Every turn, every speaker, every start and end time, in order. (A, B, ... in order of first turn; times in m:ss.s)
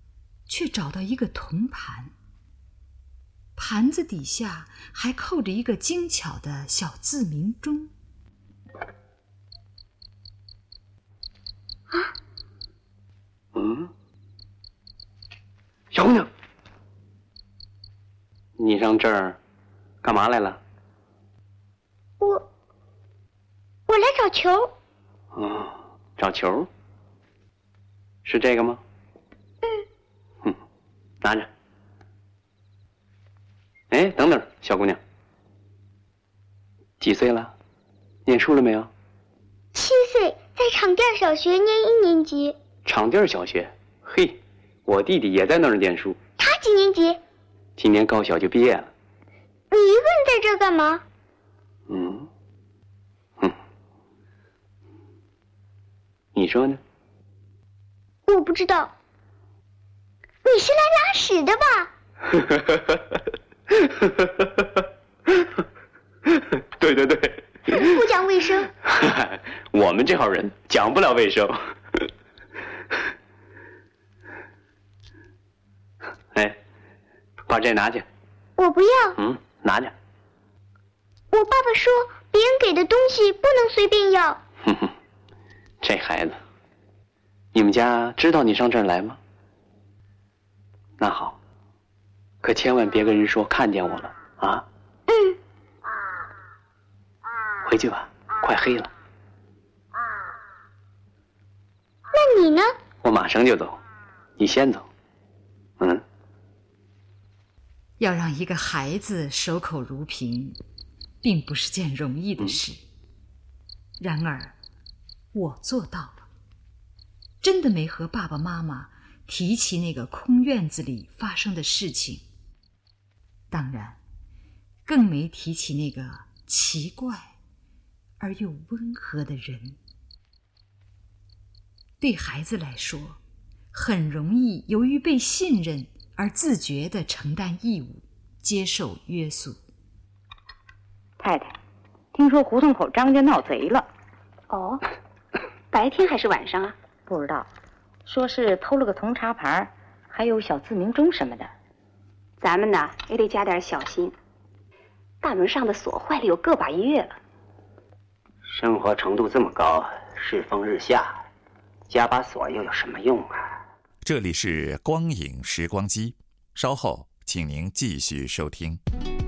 0:00.5-0:02.1 A
0:03.6-0:07.9 A
0:13.6-0:13.9 B
0:15.9-0:16.3 B
0:18.6-0:19.4 B
0:20.0-0:20.6 B
0:22.2-0:22.4 C
0:23.9-0:24.7 C
0:25.3-0:26.7 B
0:28.2-0:28.8 B
0:31.2-0:31.5 B
0:33.9-0:35.0 B
0:37.0-0:37.6 B
0:38.3-0:38.9 B
0:39.7-0:42.6 C
0:42.8-0:46.2 B
0:46.4-0:47.2 C
0:47.8-0:48.9 B
0:49.7-0:51.0 C
0:51.9-0:52.3 B
0:56.4-0:56.8 B
0:58.3-0:58.9 C
1:00.4-1:01.9 C
1:02.4-1:03.0 B
1:03.8-1:04.6 B
1:06.8-1:07.8 B
1:07.7-1:08.7 C
1:08.8-1:12.0 B
1:16.3-1:16.6 B
1:17.5-1:18.0 B
1:18.6-1:19.2 C
1:19.2-1:19.9 B
1:21.3-1:24.4 C
1:24.6-1:24.9 B
1:25.8-1:26.4 B
1:27.5-1:29.2 B
1:31.0-1:31.4 B
1:32.4-1:34.7 B
1:35.1-1:35.4 C
1:37.6-1:38.9 B
1:42.1-1:42.8 C
1:43.0-1:43.8 B
1:44.4-1:44.9 B
1:48.0-1:50.6 A
1:51.2-1:52.8 A
1:54.0-1:54.6 A
1:55.3-1:56.3 A
1:57.4-2:02.2 A
2:03.5-2:04.0 A
2:04.8-2:07.3 A
2:08.2-2:09.8 A
2:12.0-2:13.2 A
2:13.7-2:19.6 A
2:21.2-2:21.6 D
2:22.1-2:23.9 D
2:24.5-2:24.8 E
2:25.7-2:26.8 E
2:27.1-2:27.5 D
2:28.0-2:31.5 D
2:32.4-2:34.2 E
2:35.2-2:37.2 E
2:38.4-2:41.3 F
2:41.9-2:43.5 F
2:44.0-2:48.8 G